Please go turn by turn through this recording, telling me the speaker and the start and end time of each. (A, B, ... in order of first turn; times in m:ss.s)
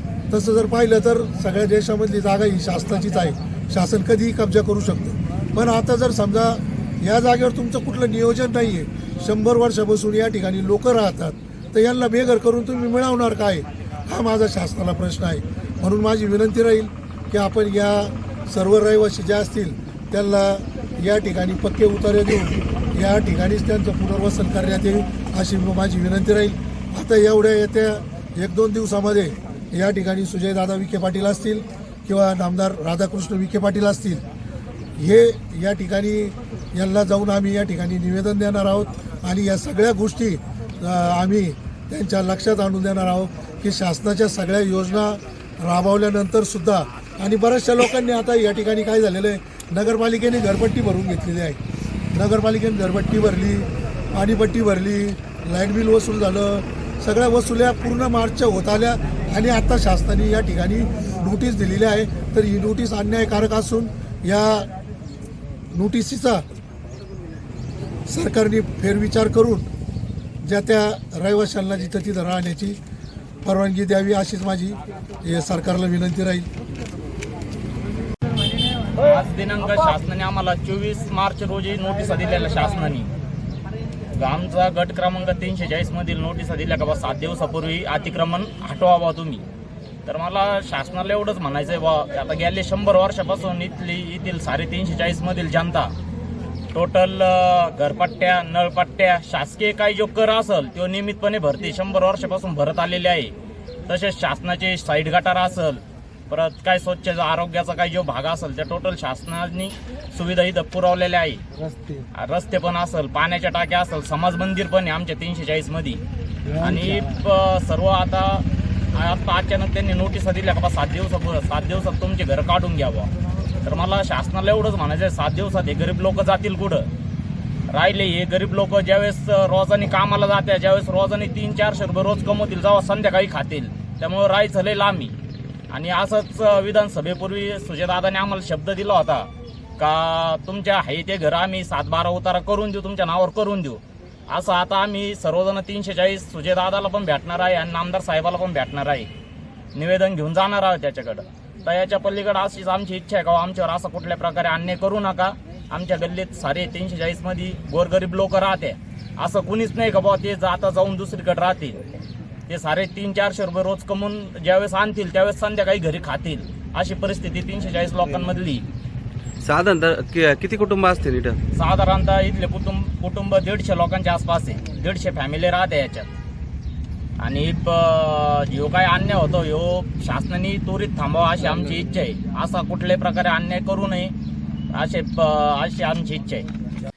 0:00.3-0:34.2 A
0:35.0-0:51.6 A
0:52.1-1:04.7 A
1:05.7-1:06.4 A
1:08.1-1:09.7 A
1:10.4-1:12.8 A
1:13.4-1:16.5 A
1:19.0-1:23.1 B
1:24.1-1:29.4 B
1:30.0-1:35.9 B
1:36.7-1:43.3 B
1:43.9-1:51.4 B
1:51.6-1:52.0 C
1:52.2-1:56.0 B
1:56.5-1:57.2 C
1:56.6-2:03.1 B
2:03.6-2:06.9 B
2:07.7-2:15.1 B
2:15.7-2:29.1 B
2:29.7-2:41.8 B
2:42.5-2:48.7 B
2:49.4-2:51.4 C
2:51.5-2:56.1 B
2:57.2-3:04.1 B
3:04.7-3:06.5 B